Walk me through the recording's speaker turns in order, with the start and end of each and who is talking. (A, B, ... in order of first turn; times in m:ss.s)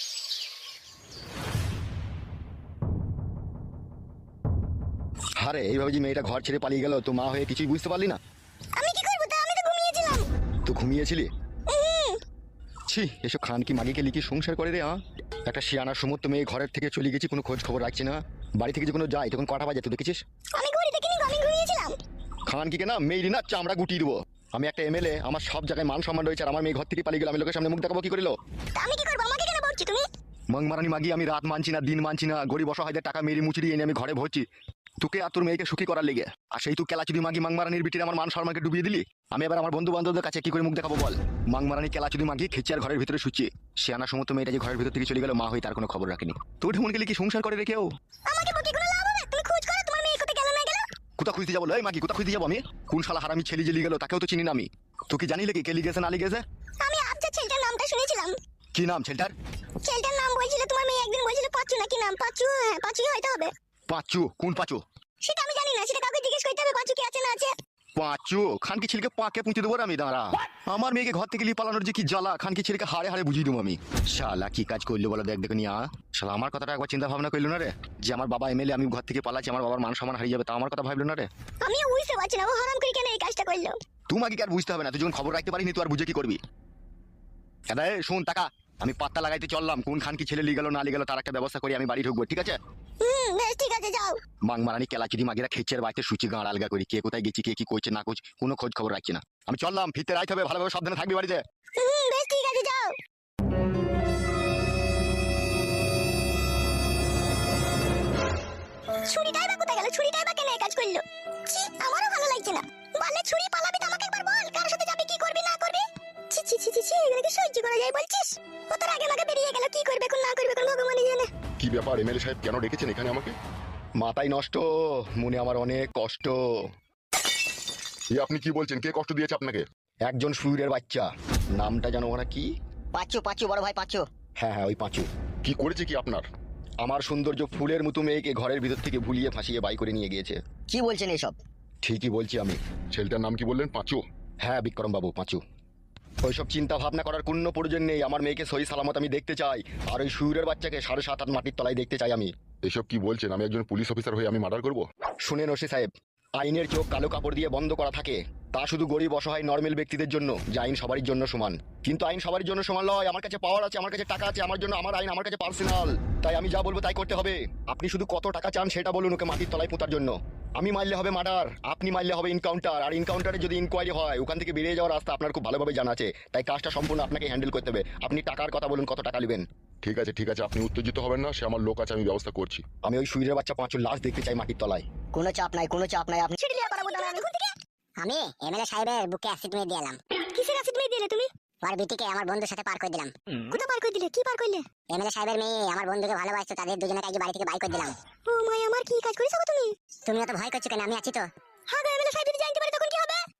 0:05.4-0:08.2 A
0:08.8-0:10.3 B
0:10.7-0:11.3 A
0:11.7-0:12.2 B
0:12.9-0:20.2 A
0:20.6-0:22.0 B
0:22.5-0:28.3 A
0:28.8-0:30.0 B
0:30.5-0:34.4 A
0:35.0-0:47.9 A
0:48.3-0:50.8 B
0:51.2-0:56.4 A
0:56.8-0:58.4 B
0:58.7-0:59.3 A
0:59.8-1:03.5 B
1:03.9-1:04.8 A
1:05.2-1:07.5 B
1:08.0-1:21.3 A
1:21.6-1:23.8 B
1:24.1-1:26.4 A
1:27.7-1:32.6 A
1:33.0-1:34.2 B
1:34.5-1:41.4 A
1:41.8-1:43.0 B
1:49.1-2:01.3 B
2:01.6-2:03.4 C
2:04.0-2:06.4 A
2:08.1-2:09.7 C
2:10.1-2:12.5 A
2:12.9-2:14.0 D
2:14.4-2:15.1 A
2:15.4-2:16.3 C
2:16.8-2:20.4 A
2:20.7-2:21.4 D
2:21.8-2:22.6 A
2:22.9-2:24.0 C
2:24.4-2:25.4 A
2:26.2-2:32.3 A
2:32.6-2:34.9 C
2:35.2-2:59.4 A
2:59.8-3:02.6 C
3:02.8-3:04.9 A
3:05.1-3:07.1 D
3:06.4-3:07.5 B
3:08.0-3:10.0 E
3:10.4-3:11.3 B
3:11.6-3:13.1 E
3:13.5-3:14.7 B
3:14.9-3:18.0 E
3:18.3-3:19.7 B
3:20.1-3:21.3 E
3:21.7-3:23.2 B